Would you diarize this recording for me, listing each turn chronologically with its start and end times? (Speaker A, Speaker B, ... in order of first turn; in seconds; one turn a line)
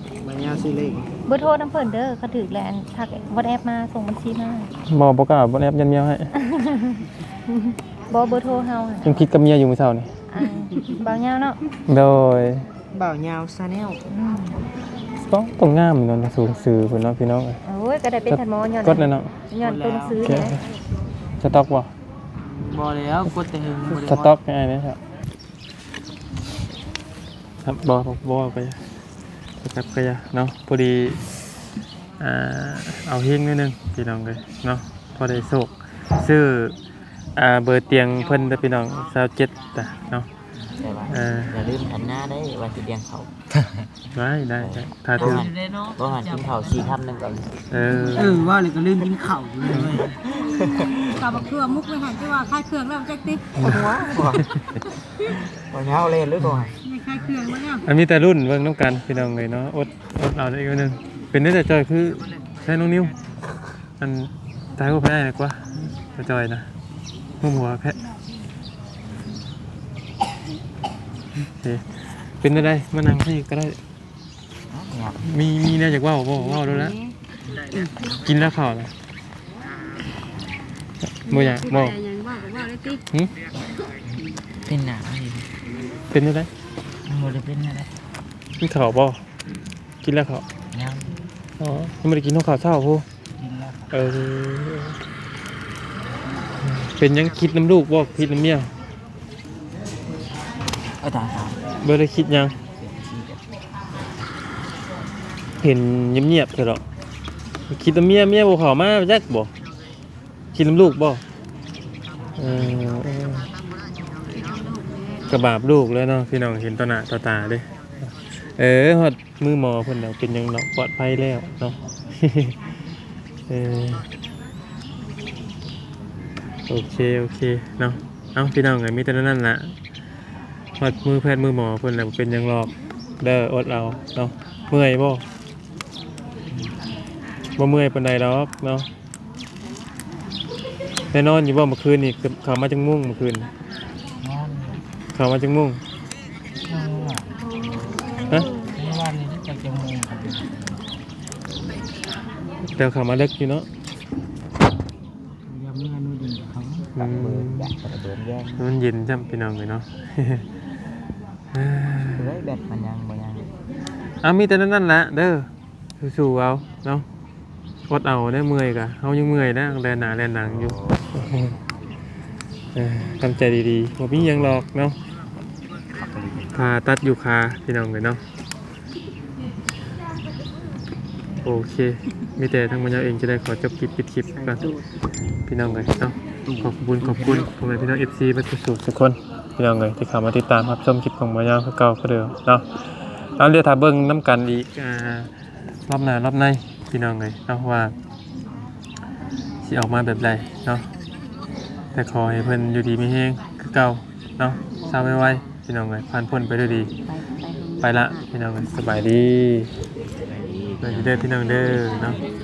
Speaker A: 0.2-1.1
Speaker B: 1.3-4.7
Speaker C: 4.9-6.3
Speaker B: 6.4-9.3
Speaker C: 9.0-10.1
Speaker B: 10.3-11.6
Speaker C: 11.9-12.7
Speaker A: 12.9-14.0
Speaker B: 14.1-14.6
Speaker C: 15.2-17.6
Speaker B: 17.6-20.6
Speaker C: 18.3-19.3
Speaker A: 19.6-20.2
Speaker C: 20.2-20.6
Speaker C: 21.4-21.9
Speaker A: 22.4-24.3
Speaker C: 23.9-25.0
Speaker C: 27.6-28.8
Speaker C: 29.6-31.2
Speaker C: 32.2-36.8
Speaker C: 37.4-40.3
Speaker D: 40.6-43.9
Speaker C: 41.1-41.5
Speaker C: 44.1-45.5
Speaker D: 44.6-47.6
Speaker C: 47.7-48.5
Speaker A: 48.2-50.2
Speaker D: 49.7-50.0
Speaker E: 50.2-53.6
Speaker C: 53.6-53.9
Speaker D: 53.6-54.5
Speaker D: 55.7-56.7
Speaker E: 56.8-57.9
Speaker C: 57.9-63.1
Speaker C: 64.0-66.7
Speaker C: 67.4-68.0
Speaker C: 71.6-73.8
Speaker D: 74.7-75.2
Speaker C: 75.2-76.9
Speaker E: 76.6-77.1
Speaker C: 78.2-78.9
Speaker C: 81.1-82.0
Speaker E: 81.3-83.0
Speaker D: 84.7-85.5
Speaker C: 86.1-86.5
Speaker D: 87.1-87.9
Speaker C: 88.6-89.2
Speaker C: 90.0-90.4
Speaker D: 90.7-91.2
Speaker C: 91.6-93.0
Speaker D: 93.4-94.2
Speaker C: 93.9-95.0
Speaker C: 96.7-98.7
Speaker D: 101.0-101.7
Speaker C: 101.8-102.5
Speaker D: 102.8-103.4
Speaker C: 105.6-106.8
Speaker C: 107.7-109.5
Speaker C: 110.5-111.2
Speaker C: 112.4-113.4
Speaker E: 114.1-115.3
Speaker C: 115.3-117.7
Speaker C: 118.6-122.5
Speaker C: 123.5-124.1
Speaker C: 126.7-129.8
Speaker C: 130.8-135.2
Speaker C: 137.6-138.9
Speaker C: 141.1-143.5
Speaker D: 144.2-144.7
Speaker C: 145.2-145.8
Speaker A: 146.7-147.1
Speaker A: 148.8-150.3
Speaker C: 152.7-153.7
Speaker A: 155.5-156.8
Speaker D: 156.9-158.7
Speaker C: 157.0-157.7
Speaker C: 158.6-160.4
Speaker C: 161.5-162.3
Speaker D: 162.1-163.5
Speaker C: 164.2-165.5
Speaker C: 166.0-167.1
Speaker C: 167.9-171.6
Speaker D: 170.5-171.2
Speaker C: 172.8-175.0
Speaker D: 176.0-176.5
Speaker C: 176.5-178.2
Speaker C: 181.4-184.7
Speaker C: 185.5-192.7
Speaker D: 186.4-187.5
Speaker C: 193.4-195.3
Speaker C: 195.9-197.9
Speaker C: 199.6-200.9
Speaker C: 201.9-206.9
Speaker E: 207.1-208.3
Speaker C: 207.8-209.7
Speaker D: 210.4-211.2
Speaker C: 210.8-212.2